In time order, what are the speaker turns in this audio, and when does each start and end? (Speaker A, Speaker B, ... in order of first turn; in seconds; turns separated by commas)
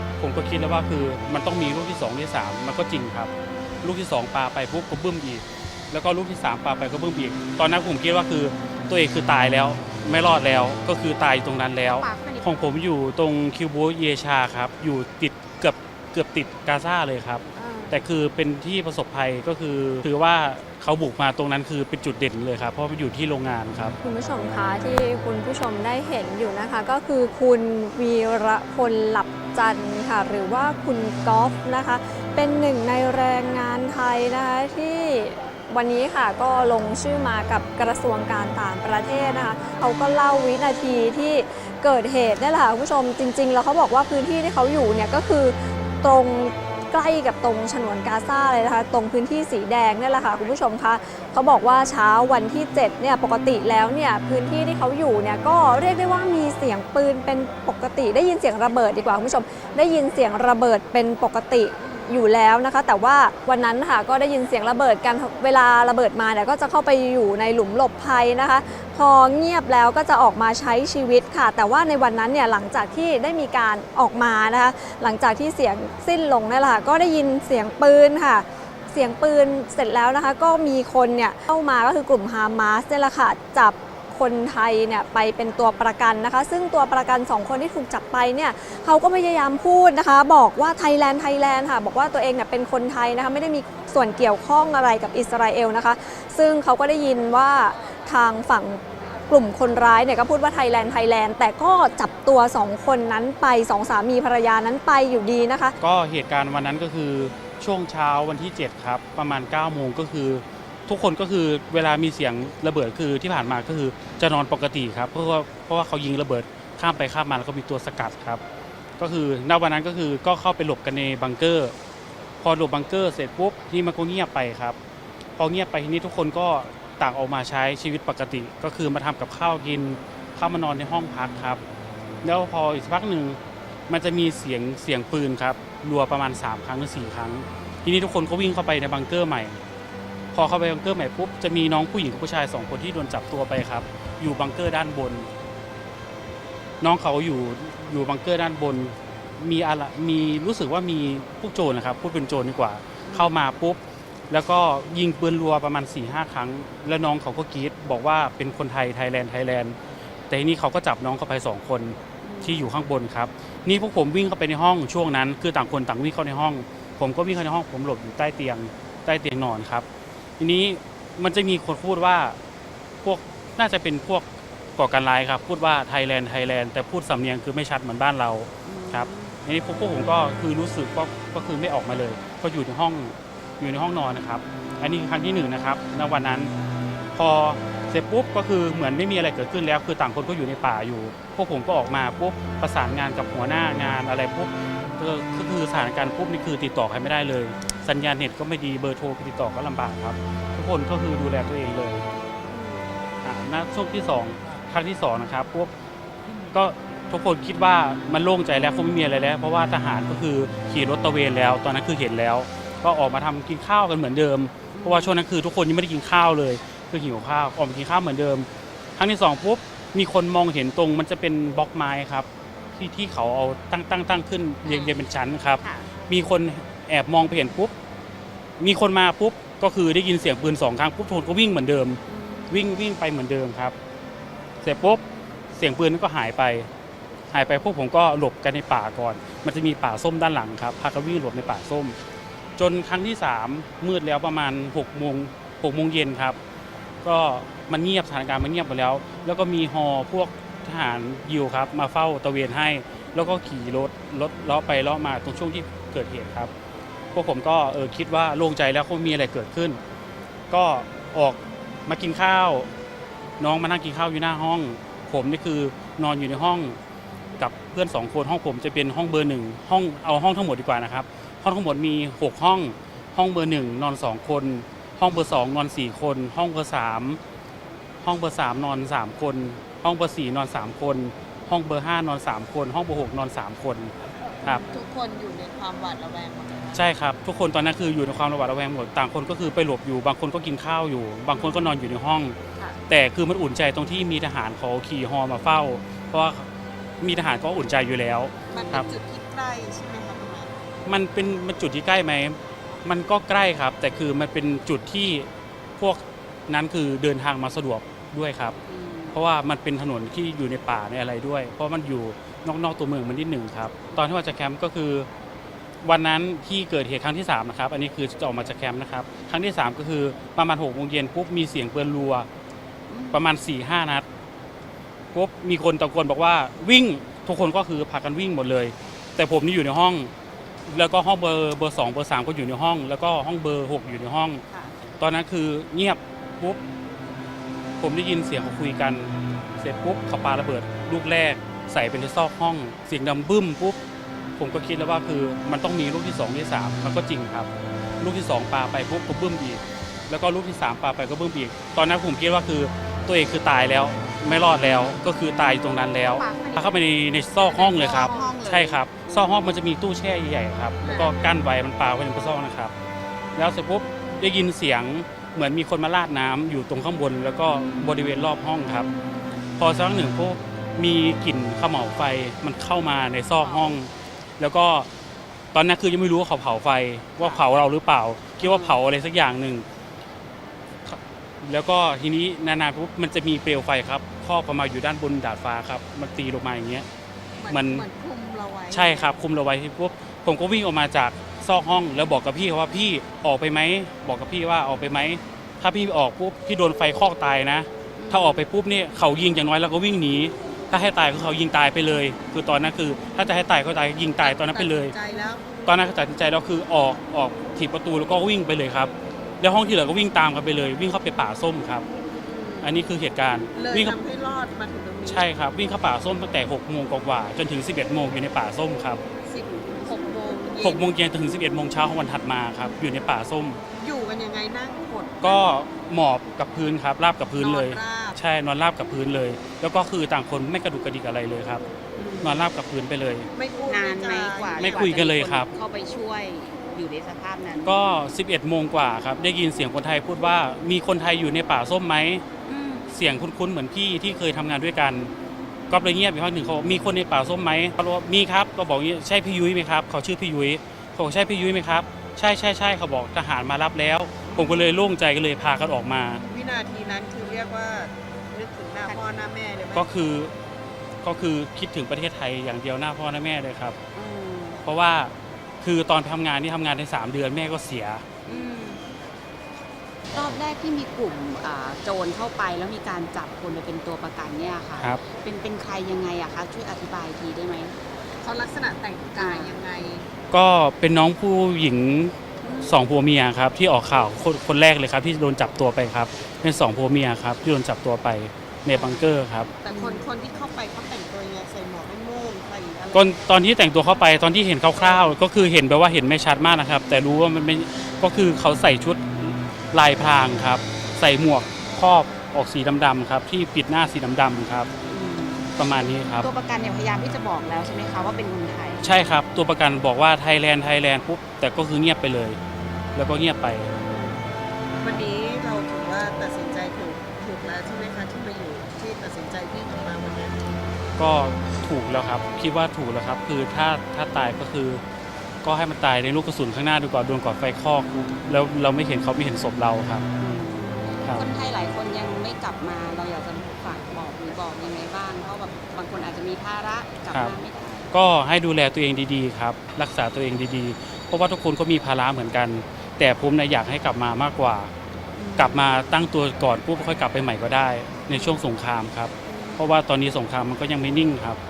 Speaker A: 0.2-3.3, Speaker A: 3.8-23.9, Speaker B: 11.8-12.5, Speaker C: 17.6-18.0, Speaker C: 24.0-105.7, Speaker A: 105.8-118.4, Speaker A: 119.0-121.7, Speaker A: 122.4-124.8, Speaker A: 125.4-131.6, Speaker A: 132.2-139.6, Speaker A: 140.3-145.3, Speaker A: 146.8-153.8, Speaker B: 153.0-153.3, Speaker A: 154.3-159.8, Speaker A: 160.3-169.8, Speaker B: 162.2-162.7, Speaker A: 170.4-172.4, Speaker A: 173.0-174.2, Speaker A: 174.8-186.5, Speaker B: 178.6-179.3, Speaker A: 187.1-202.1, Speaker A: 203.2-205.7, Speaker A: 206.5-227.7, Speaker B: 214.7-215.2, Speaker B: 224.6-225.0, Speaker B: 225.6-225.9, Speaker A: 228.6-233.8, Speaker B: 232.1-232.6, Speaker A: 234.6-235.0, Speaker A: 235.5-236.7, Speaker A: 237.3-241.9, Speaker A: 242.6-246.4, Speaker A: 247.0-256.5, Speaker A: 257.1-259.8, Speaker A: 260.5-262.7, Speaker A: 263.4-266.8, Speaker A: 267.4-277.2, Speaker A: 278.0-283.9, Speaker B: 284.4-284.9, Speaker D: 284.6-286.8, Speaker A: 286.7-292.4, Speaker B: 291.3-291.8, Speaker A: 292.9-296.5, Speaker A: 297.0-298.9, Speaker B: 298.5-298.9, Speaker D: 298.5-300.5, Speaker A: 300.9-305.3, Speaker A: 305.8-308.5, Speaker B: 308.6-309.1, Speaker A: 309.1-315.1, Speaker A: 315.8-322.3, Speaker B: 322.9-323.2, Speaker A: 323.1-324.1, Speaker A: 325.1-330.1, Speaker A: 330.7-334.4, Speaker A: 335.0-336.6, Speaker A: 337.8-343.8, Speaker A: 344.4-362.7, Speaker B: 356.0-356.8, Speaker B: 357.4-359.6, Speaker D: 357.7-358.3, Speaker D: 360.8-361.2, Speaker A: 363.4-368.9, Speaker B: 368.9-369.3, Speaker A: 369.6-374.9, Speaker B: 373.4-373.8, Speaker A: 375.5-379.6, Speaker B: 378.4-378.8, Speaker A: 380.9-386.9, Speaker D: 387.4-389.2, Speaker A: 387.5-387.9, Speaker A: 388.7-404.9, Speaker B: 397.9-398.5, Speaker D: 404.2-405.4, Speaker A: 405.6-411.9, Speaker D: 412.2-412.8, Speaker A: 412.6-414.0, Speaker D: 413.5-415.2, Speaker A: 415.0-419.0, Speaker D: 419.2-420.9, Speaker A: 420.6-423.6, Speaker D: 423.8-425.6, Speaker A: 425.2-431.6, Speaker D: 427.3-428.2, Speaker B: 431.9-432.5, Speaker A: 432.2-433.3, Speaker D: 433.3-435.0, Speaker B: 433.7-437.9, Speaker A: 434.6-435.5, Speaker A: 437.6-442.2, Speaker B: 442.5-443.2, Speaker A: 442.9-445.1, Speaker A: 445.7-456.2, Speaker B: 454.2-454.7, Speaker D: 456.3-459.9, Speaker A: 459.7-460.3, Speaker A: 461.0-463.8, Speaker B: 463.9-464.6, Speaker A: 464.6-468.0, Speaker B: 468.2-468.8, Speaker B: 470.1-477.8, Speaker D: 478.2-480.1, Speaker B: 479.1-479.6, Speaker A: 480.3-489.5, Speaker B: 482.4-482.7, Speaker B: 488.7-489.1, Speaker D: 489.6-493.1, Speaker B: 489.7-490.1, Speaker A: 492.9-504.7, Speaker B: 504.9-505.5, Speaker A: 505.6-506.3, Speaker B: 506.2-508.9, Speaker A: 508.8-512.4, Speaker A: 512.9-513.8, Speaker D: 514.8-520.4, Speaker A: 521.0-524.8, Speaker A: 525.4-530.0, Speaker B: 530.2-537.9, Speaker A: 531.0-531.3, Speaker A: 537.9-544.7, Speaker B: 545.1-545.7, Speaker A: 545.4-551.4, Speaker B: 548.1-548.4, Speaker B: 549.2-549.6